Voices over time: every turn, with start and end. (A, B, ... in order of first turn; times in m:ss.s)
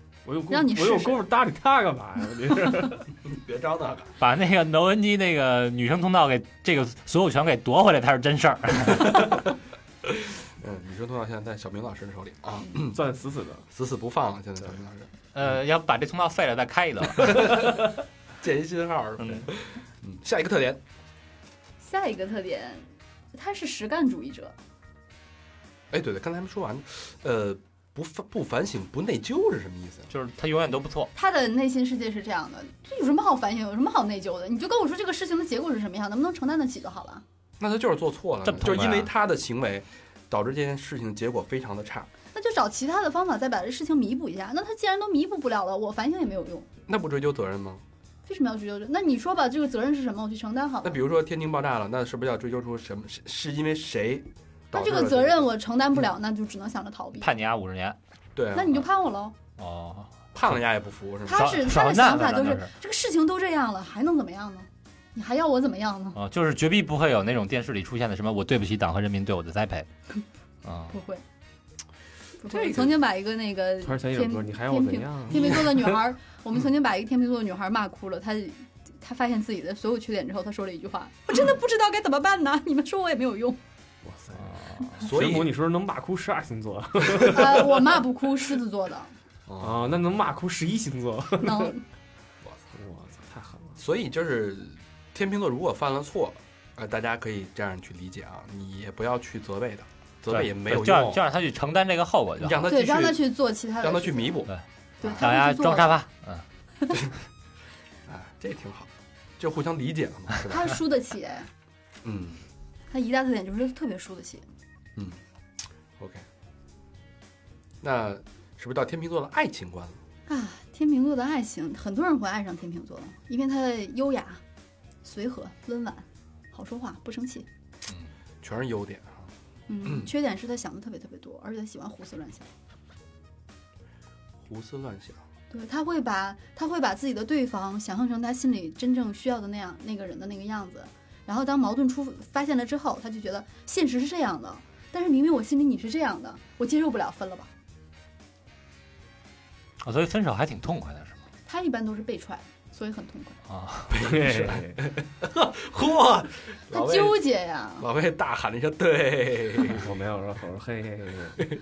0:00.2-0:03.1 A
0:00.5-0:01.2 B
0:03.2-0:04.1 C
0:04.2-0:09.4 D
0:10.0-0:13.0 C
0:12.8-0:13.7 A
0:13.7-0:15.1 C
0:15.3-0:17.7 D
0:17.2-0:17.7 C
0:18.4-0:20.8 C
0:19.2-0:19.5 D
0:21.8-0:24.5 B
0:25.9-0:30.1 C
0:30.1-0:31.1 D
0:31.1-0:37.2 B
0:37.6-0:42.1 C
0:38.4-0:39.1 D
0:42.3-0:46.7 B
0:46.9-0:47.8 C
0:48.2-0:51.0 B
0:50.8-0:55.5 C
0:54.7-0:57.3 B
0:57.2-0:58.0 D
0:58.3-0:58.9 C
0:58.5-0:59.3 B
0:59.6-1:00.6 D
1:00.3-1:01.5 C
1:01.2-1:06.2 B
1:01.3-1:02.7 D
1:06.2-1:09.9 D
1:10.6-1:11.0 D
1:10.9-1:11.2 B
1:12.4-1:23.6 B
1:12.5-1:12.9 A
1:13.8-1:15.8 A
1:24.0-1:27.9 A
1:24.5-1:25.0 D
1:25.0-1:25.5 C
1:27.2-1:29.1 B
1:29.5-1:30.0 C
1:29.6-1:31.7 A
1:31.4-1:31.8 B
1:32.7-1:33.8 A
1:33.8-1:41.2 C
1:40.3-1:42.6 D
1:42.4-1:45.2 C
1:42.6-1:44.4 B
1:44.5-1:46.4 D
1:45.0-1:46.0 B
1:48.0-1:50.8 C
1:50.4-1:51.5 B
1:52.0-1:52.4 C
1:52.9-1:54.4 B
1:56.0-1:56.2 C
1:57.8-2:00.0 C
2:00.3-2:04.4 B
2:05.0-2:07.5 B
2:08.4-2:09.3 C
2:09.7-2:12.5 B
2:14.4-2:15.2 C
2:15.5-2:27.5 B
2:29.8-2:31.2 D
2:31.4-2:33.4 B
2:33.5-2:34.0 D
2:33.9-2:37.2 C
2:33.9-2:34.9 A
2:36.7-2:37.9 B
2:37.8-2:39.9 C
2:39.7-2:41.4 A